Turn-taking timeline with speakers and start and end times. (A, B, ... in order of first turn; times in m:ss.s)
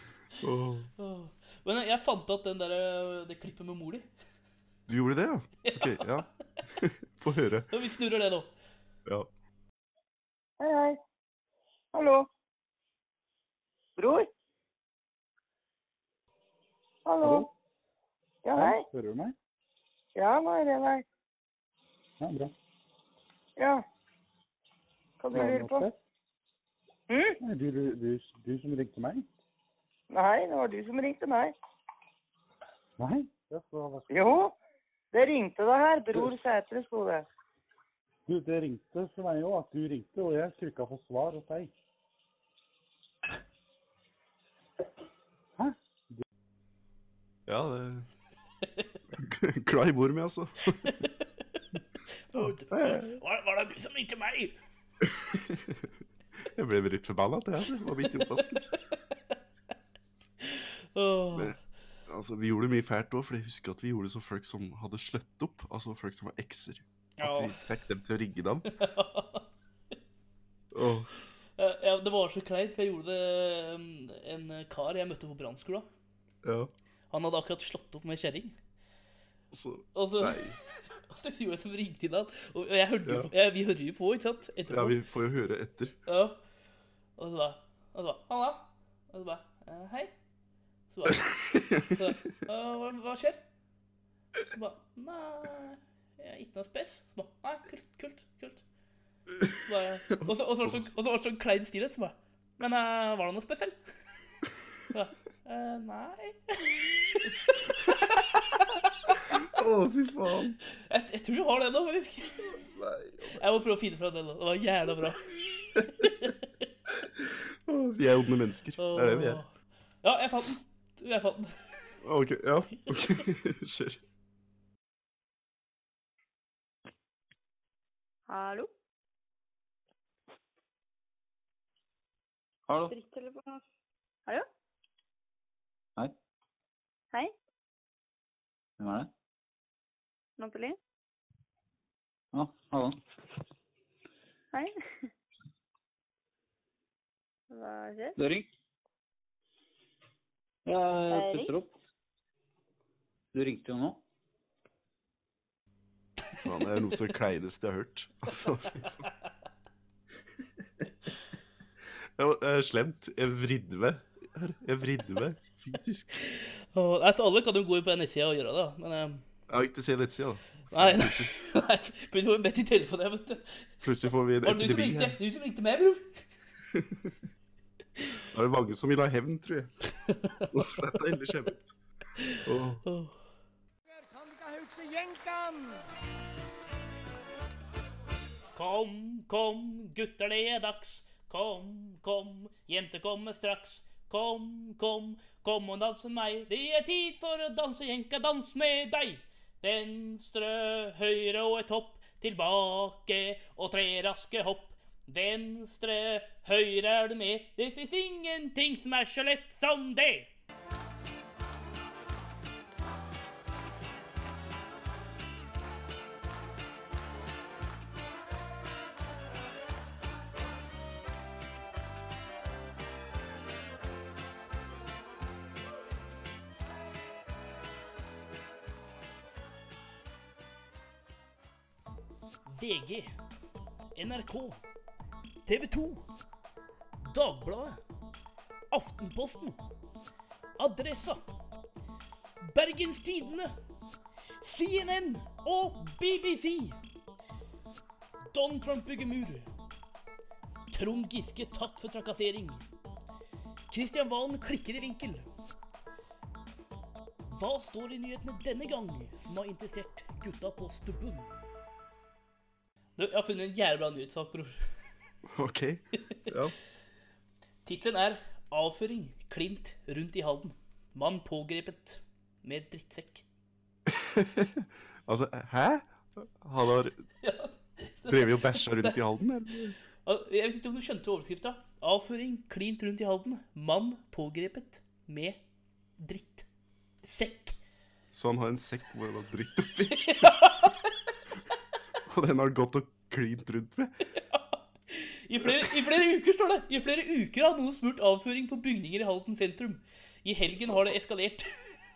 0:00.4-0:00.9 A
0:01.0-0:04.1 B
0:04.9-0:07.7 A
0:05.6-0:06.2 B
0:07.7-0:08.5 B
0:10.6-0:11.0 C
0:11.9-0:12.3 C
0:14.0-0:14.3 C
0:17.1-0:17.5 C
0:17.2-0:17.5 D
0:18.4-0:18.8 C
0:18.6-0:19.3 D
0:20.2-0:21.0 C
0:22.2-0:22.5 D
0:23.6-0:23.8 C
0:25.2-0:25.8 C
0:25.3-0:26.0 D
0:27.1-0:27.4 C
0:27.4-0:29.3 D
0:30.1-0:31.5 C
0:33.0-0:34.4 D
0:34.1-0:34.5 C
0:35.1-0:37.2 C
0:38.3-0:41.7 D
0:45.6-0:46.2 D
0:47.5-0:48.1 A
0:49.1-0:50.9 A
0:50.8-0:54.6 B
0:52.4-0:53.2 A
0:55.0-0:55.9 A
0:56.5-0:58.6 A
0:58.1-0:58.6 B
1:00.4-1:01.5 B
1:01.3-1:08.7 A
1:07.2-1:07.6 B
1:08.7-1:09.5 B
1:10.7-1:11.1 A
1:11.6-1:15.9 B
1:16.4-1:16.7 A
1:17.1-1:18.6 B
1:19.5-1:20.6 A
1:19.9-1:20.5 B
1:21.1-1:25.0 B
1:23.0-1:23.3 A
1:24.7-1:26.0 A
1:26.1-1:26.4 B
1:27.2-1:30.1 B
1:30.9-1:33.4 B
1:31.1-1:32.0 A
1:34.5-1:38.6 B
1:39.6-1:43.7 B
1:40.1-1:40.9 A
1:44.9-1:49.3 B
1:49.3-1:50.6 A
1:50.9-1:52.6 B
1:52.7-1:53.1 A
1:53.3-1:56.4 B
1:55.8-1:56.0 A
1:57.2-1:59.4 A
1:58.8-1:59.5 B
2:00.0-2:01.6 B
2:02.0-2:04.0 A
2:08.3-2:08.7 E
2:12.7-2:12.9 F
2:12.9-2:13.6 E
2:18.8-2:19.1 F
2:20.4-2:20.8 E
2:22.3-2:23.0 F
2:24.5-2:25.1 E
2:27.5-2:28.2 E
2:28.2-2:28.5 F
2:30.7-2:31.7 F
2:31.1-2:31.5 E
2:33.3-2:34.0 F
2:36.4-2:39.0 A
2:42.2-2:46.1 A
2:46.2-2:49.2 B
2:49.5-2:51.4 A
2:50.7-2:53.4 B
2:53.8-2:55.2 A
2:54.4-2:56.2 B
2:56.7-2:57.2 A
2:58.3-2:59.7 A
3:00.0-3:00.8 B
3:00.5-3:01.7 A
3:02.2-3:03.2 B
3:02.4-3:02.8 A
3:08.6-3:30.3 B
3:52.4-3:53.1 B
3:54.0-3:54.6 B
3:55.4-3:56.0 B
3:57.0-3:57.8 B
3:58.7-3:59.6 B
4:00.6-4:01.2 B
4:02.4-4:03.6 B
4:04.4-4:06.8 B
4:08.3-4:09.5 B
4:10.7-4:12.6 B
4:13.7-4:15.3 B
4:17.3-4:21.4 B
4:23.0-4:24.6 B
4:25.3-4:26.6 A
4:27.6-4:33.2 B
4:33.9-4:37.0 A
4:37.2-4:39.0 B
4:38.1-4:39.8 A
4:40.0-4:45.4 B
4:46.0-4:46.4 B
4:47.0-4:47.6 B
4:48.1-4:50.4 A
4:49.9-4:50.9 B
4:52.0-4:54.0 A
4:54.2-5:01.5 B
4:55.4-4:55.8 A